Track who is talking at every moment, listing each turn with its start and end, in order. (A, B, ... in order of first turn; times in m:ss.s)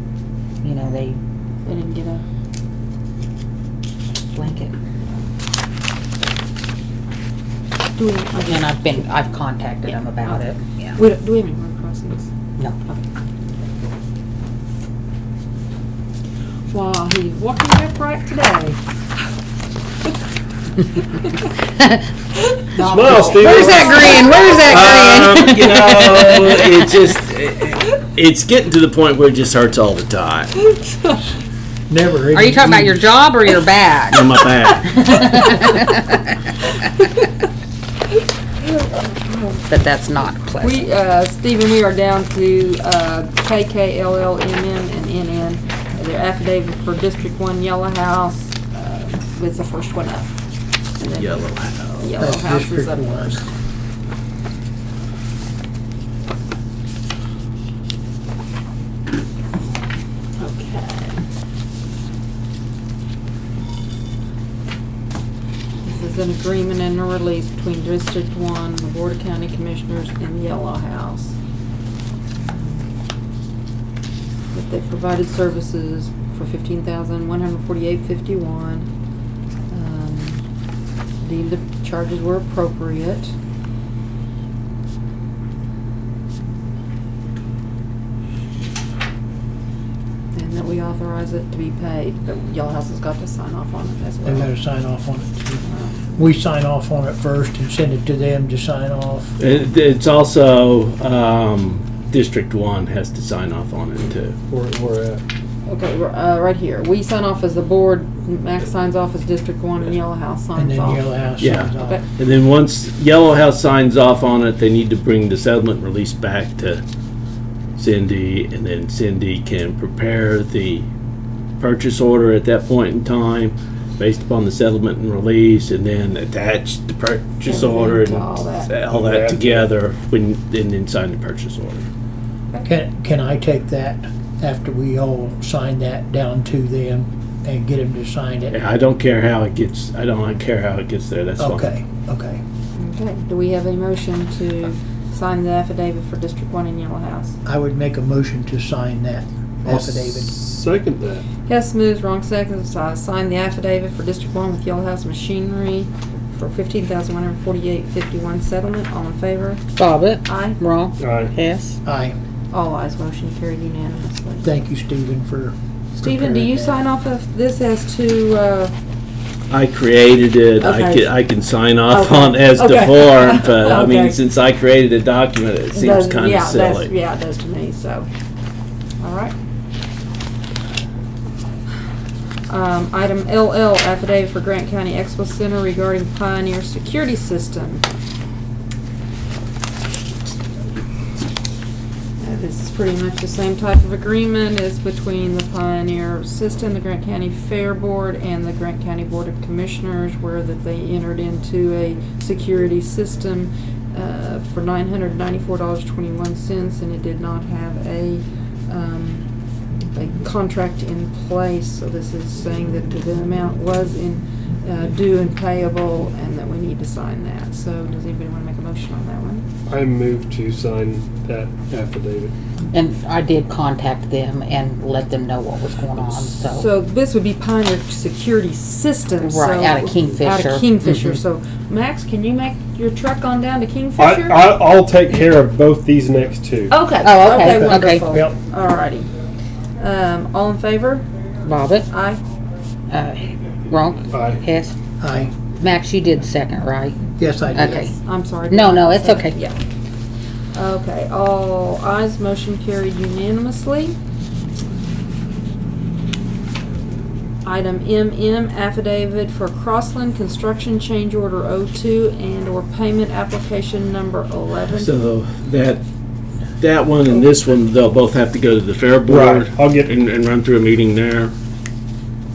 0:00.6-0:01.2 A
0:01.6-0:02.2 B
0:04.3-0:04.7 A
0:07.9-0:08.9 B
0:08.4-0:11.0 A
0:09.9-0:10.4 B
0:10.9-0:12.3 B
0:16.7-0:18.8 B
0:22.7-0:26.7 A
0:22.8-0:25.0 C
0:23.1-0:24.7 B
0:24.6-0:30.5 D
0:30.6-0:31.2 B
0:31.9-0:33.1 E
0:32.3-0:34.4 A
0:34.1-0:35.2 D
0:35.0-0:36.2 A
0:35.0-0:35.9 B
0:37.0-0:37.2 B
0:38.8-0:39.6 B
0:39.7-0:40.8 A
0:40.6-0:50.4 B
0:51.0-0:53.5 B
0:51.2-0:52.1 D
0:52.2-0:53.4 E
1:00.4-1:01.2 B
1:05.8-1:11.4 B
1:12.4-1:12.8 B
1:14.5-1:18.9 B
1:19.7-1:20.4 B
1:21.2-1:23.3 B
1:30.3-1:34.5 B
1:34.2-1:35.6 E
1:35.6-1:36.2 B
1:36.2-1:39.4 E
1:39.4-1:44.4 D
1:44.5-1:45.2 C
1:45.7-1:51.2 B
1:50.5-1:52.0 E
1:51.4-1:56.8 D
1:51.8-1:52.0 B
1:57.8-2:00.9 D
2:01.6-2:11.8 D
2:07.4-2:08.7 B
2:08.9-2:09.7 C
2:12.6-2:18.6 E
2:18.5-2:21.7 D
2:21.4-2:22.4 E
2:22.8-2:27.4 B
2:27.4-2:30.3 E
2:29.6-2:31.2 C
2:31.5-2:39.6 B
2:39.8-2:41.8 A
2:40.2-2:40.6 B
2:41.0-2:41.3 C
2:41.8-2:42.2 E
2:42.5-2:44.5 B
2:44.4-2:46.8 E
2:46.0-2:48.7 B
2:49.5-2:56.9 D
2:50.6-2:51.2 B
2:51.8-2:54.2 B
2:55.7-2:58.1 B
2:59.0-2:59.3 B
3:02.5-3:07.8 B
3:12.2-3:29.2 B
3:29.9-3:39.4 B
3:39.7-3:42.3 C
3:42.7-3:46.7 A
3:46.5-3:54.5 B
3:49.2-3:50.9 A
3:54.0-3:56.8 C
3:56.7-3:59.1 B
3:57.0-3:58.0 A
3:57.4-3:58.4 E
3:59.8-4:01.1 B
4:01.4-4:01.9 A
4:01.9-4:02.2 B
4:02.9-4:04.7 A
4:04.1-4:04.4 C
4:05.0-4:05.3 E
4:05.6-4:07.0 A
4:07.2-4:07.8 E
4:07.5-4:09.6 B
4:07.5-4:07.9 A
4:08.5-4:09.4 A
4:10.5-4:13.9 B
4:17.4-4:24.9 B
4:24.8-4:25.8 D
4:26.6-4:31.3 D
4:29.0-4:29.9 C